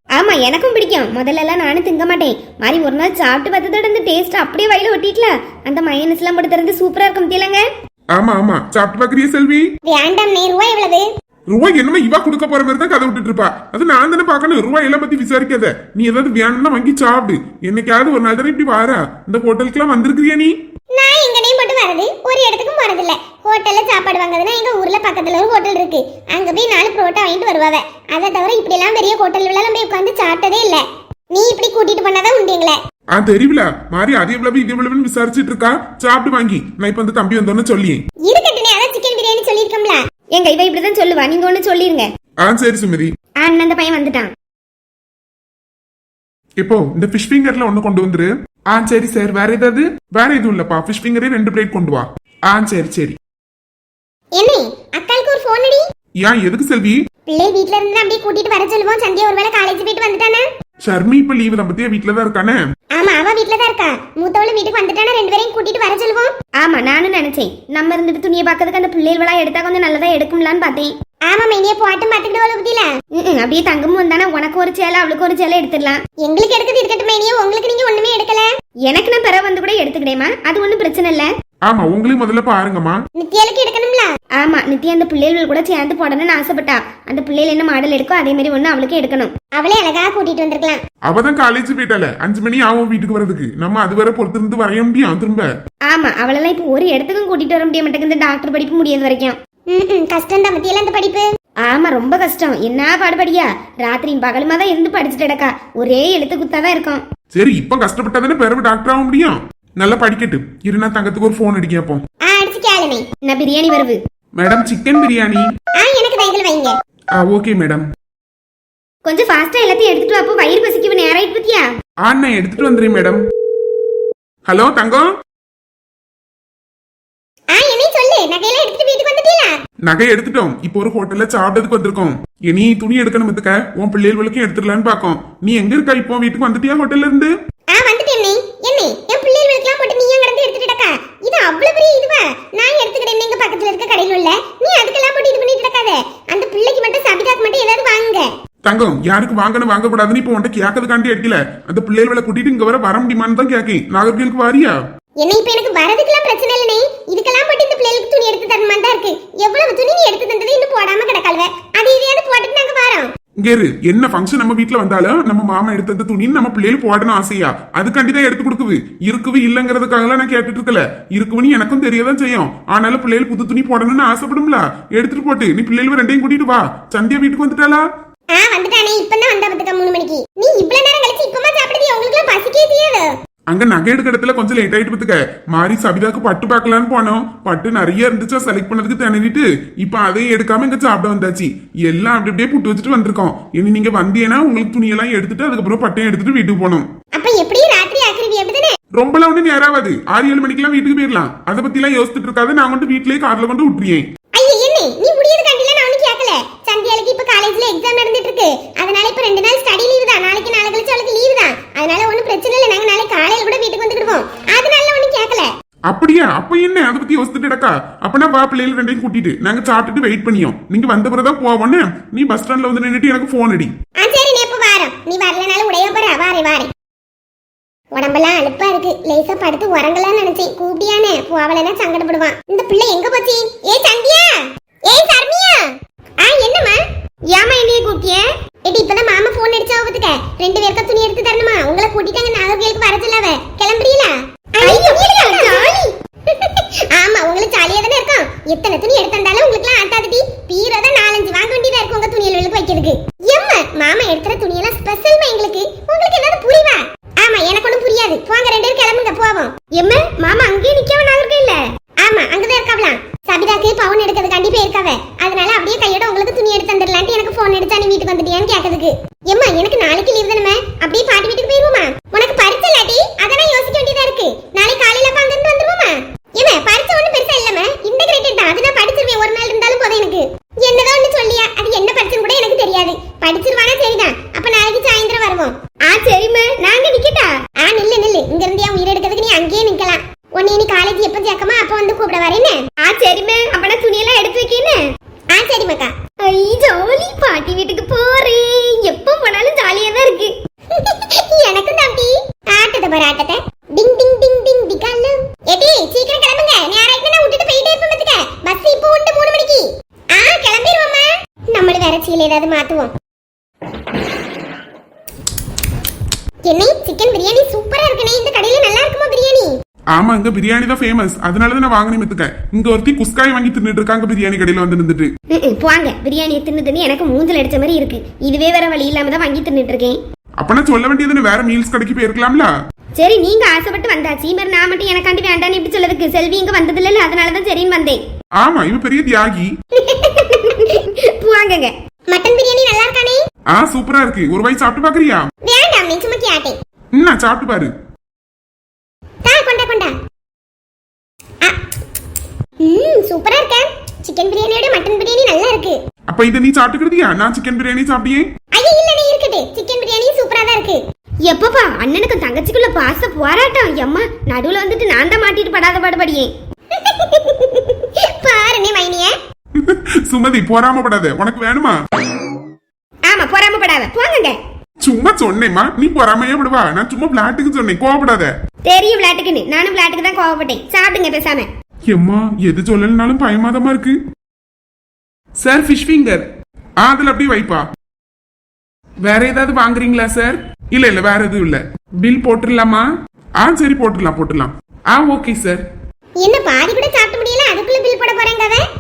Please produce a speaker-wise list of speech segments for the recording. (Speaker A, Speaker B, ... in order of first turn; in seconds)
Speaker A: 0.1-7.7, 40.3-42.1, 43.4-44.3, 66.6-70.9, 73.2-76.0, 78.8-81.3, 84.4-89.3, 95.9-99.4, 101.6-107.0, 113.2-114.0, 119.0-121.7, 237.3-238.2, 244.6-245.8, 259.7-261.6, 285.9-287.4, 292.8-294.8, 296.2-300.3, 325.3-330.0, 333.0-338.0, 339.8-341.7, 361.2-366.3, 373.1-374.4, 378.6-381.5
Speaker B: 8.2-9.7, 11.5-20.6, 33.1-38.0, 42.4-43.1, 46.6-53.2, 56.2-57.0, 60.8-62.6, 81.7-83.0, 91.1-95.5, 107.3-112.0, 114.4-115.5, 117.1-117.8, 122.0-123.2, 124.5-125.1, 129.9-137.3, 148.7-154.8, 163.4-177.8, 183.5-196.9, 198.9-204.1, 215.9-223.7, 319.9-325.1, 330.4-332.5, 338.4-339.5, 343.5-345.3, 347.0-347.7, 356.1-358.3, 369.6-371.8, 374.8-378.3, 381.9-384.0, 385.4-386.2, 386.8-387.6, 389.0-392.8, 393.4-395.6
Speaker C: 9.9-11.0, 20.9-32.8, 38.2-40.0, 54.4-55.9, 57.3-60.5, 63.0-66.3, 71.3-72.9, 76.2-78.5, 83.2-84.1, 89.5-90.8, 99.7-101.2, 112.2-113.1, 115.8-116.8, 127.5-129.6, 137.7-148.3, 155.2-163.1, 178.3-183.1, 197.2-198.8, 204.3-215.5, 224.0-226.7, 227.9-235.7, 236.2-236.8, 238.7-259.5, 262.0-285.6, 287.6-292.6, 295.3-295.9, 300.7-312.9, 316.5-319.5, 342.1-343.2, 345.4-346.6, 349.2-349.9, 352.6-355.8, 358.5-360.8, 366.7-369.2, 396.2-398.6